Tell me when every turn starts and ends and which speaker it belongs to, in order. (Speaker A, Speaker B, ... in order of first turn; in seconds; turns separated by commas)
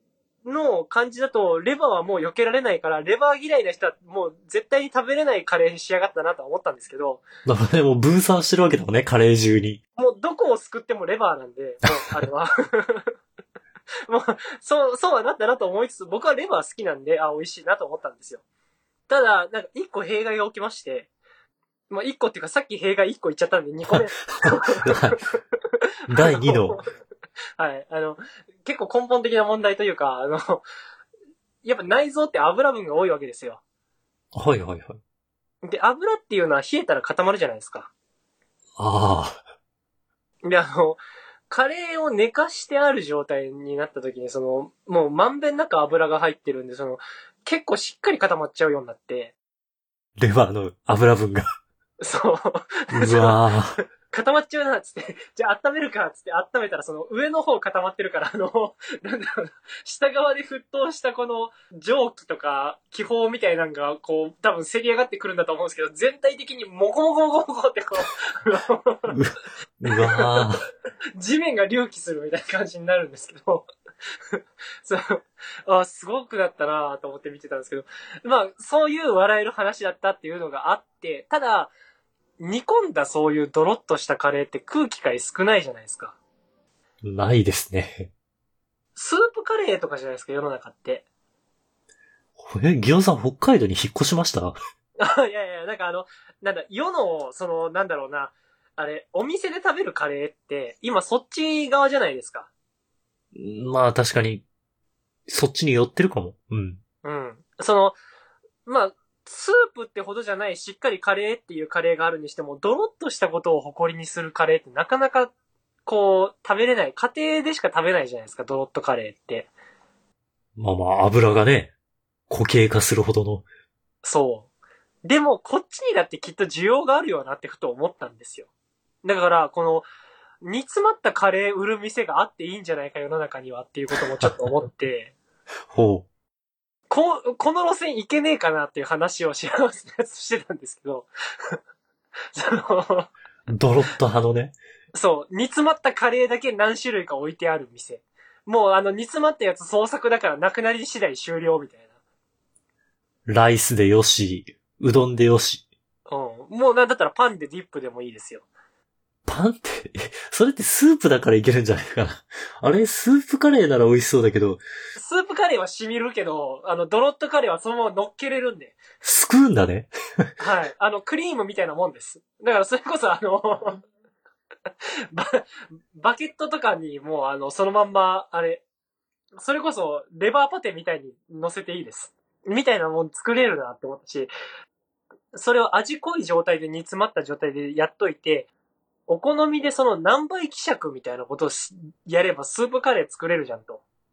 Speaker A: 0.5-7.2, Speaker B: 7.5-9.8, Speaker A: 10.0-13.1, Speaker A: 14.1-18.4, Speaker A: 19.1-21.1, Speaker A: 21.9-25.4, Speaker B: 24.5-25.2, Speaker B: 26.1-26.8, Speaker A: 26.1-26.8, Speaker A: 27.6-30.6, Speaker A: 31.6-33.6, Speaker B: 34.3-35.0, Speaker A: 35.6-37.9, Speaker B: 38.8-39.4, Speaker A: 40.4-49.3, Speaker B: 50.2-51.5, Speaker A: 52.0-53.4, Speaker B: 52.9-53.8, Speaker A: 54.1-69.2, Speaker B: 69.1-70.7, Speaker A: 70.0-70.4, Speaker A: 71.2-73.7, Speaker A: 74.3-81.7, Speaker A: 82.4-86.2, Speaker B: 87.0-88.1, Speaker A: 89.0-91.0, Speaker B: 92.4-94.6, Speaker A: 95.0-102.5, Speaker B: 103.3-104.5, Speaker B: 105.3-106.8, Speaker A: 107.0-108.0, Speaker A: 108.7-115.3, Speaker A: 115.9-119.5, Speaker B: 120.6-121.7, Speaker B: 122.3-123.5, Speaker A: 124.0-124.5, Speaker A: 125.0-128.5, Speaker A: 129.0-129.9, Speaker A: 130.4-135.1, Speaker B: 135.7-136.1, Speaker A: 136.9-141.6, Speaker A: 142.3-143.1, Speaker B: 143.5-144.6, Speaker A: 144.9-151.9, Speaker B: 153.3-155.6, Speaker A: 156.1-158.4, Speaker B: 159.3-164.6, Speaker A: 165.0-168.8, Speaker B: 169.0-170.3, Speaker A: 170.4-173.8, Speaker A: 175.1-178.6, Speaker A: 179.4-184.3, Speaker A: 185.3-188.5, Speaker A: 189.1-193.8